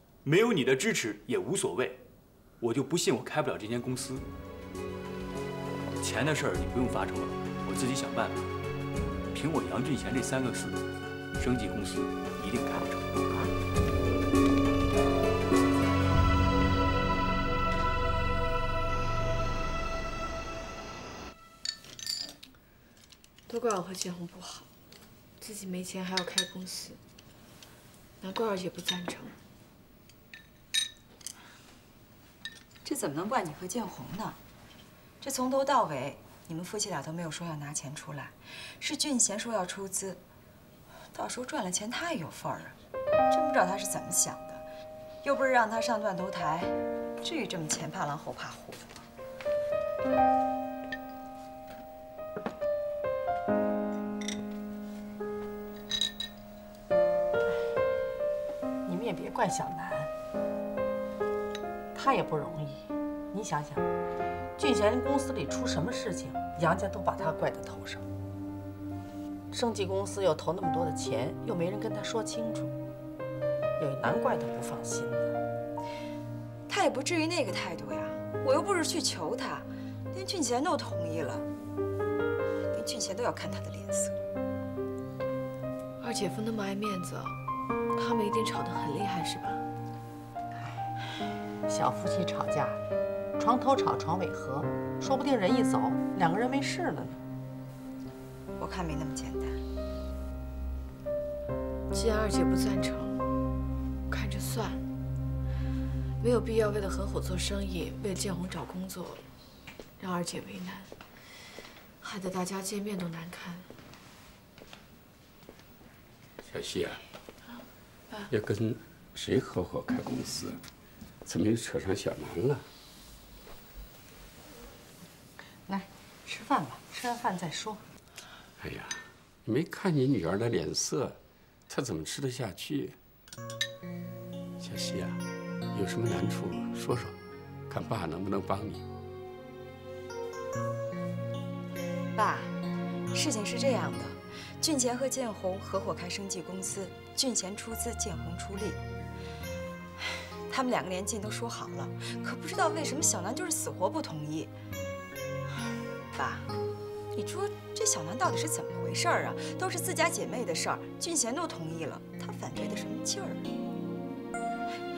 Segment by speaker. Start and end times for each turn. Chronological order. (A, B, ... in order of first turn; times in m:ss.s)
0:00.2-0:02.0 A
0:02.6-0:04.3 A
0:06.0-0:08.5 A
0:09.3-0:13.5 A
0:23.5-0:24.7 B
0:25.4-0:27.0 B
0:28.2-0:29.4 B
0:32.8-0:34.4 C
0:35.2-0:40.2 C
0:41.1-0:42.8 C
0:43.3-0:44.6 C
0:45.2-0:49.0 C
0:58.8-1:00.1 D
1:01.9-1:03.8 D
1:04.6-1:08.0 D
1:09.5-1:12.7 D
1:13.8-1:15.4 D
1:16.7-1:21.4 C
1:22.7-1:24.2 C
1:26.0-1:27.4 B
1:27.9-1:29.6 B
1:31.6-1:32.8 D
1:33.4-1:37.2 D
1:38.6-1:39.6 C
1:41.9-1:43.2 B
1:44.1-1:44.8 B
1:46.2-1:49.2 B
1:50.0-1:50.9 B
1:52.0-1:53.7 B
1:56.4-1:57.0 E
1:58.3-2:00.6 E
2:01.2-2:02.6 E
2:05.6-2:07.8 D
2:08.6-2:11.2 E
2:11.7-2:13.0 E
2:14.6-2:15.2 E
2:15.7-2:17.2 E
2:17.7-2:18.8 E
2:22.1-2:22.5 C
2:23.1-2:28.8 C
2:30.5-2:34.5 C
2:36.1-2:36.5 C
2:37.1-2:43.4 C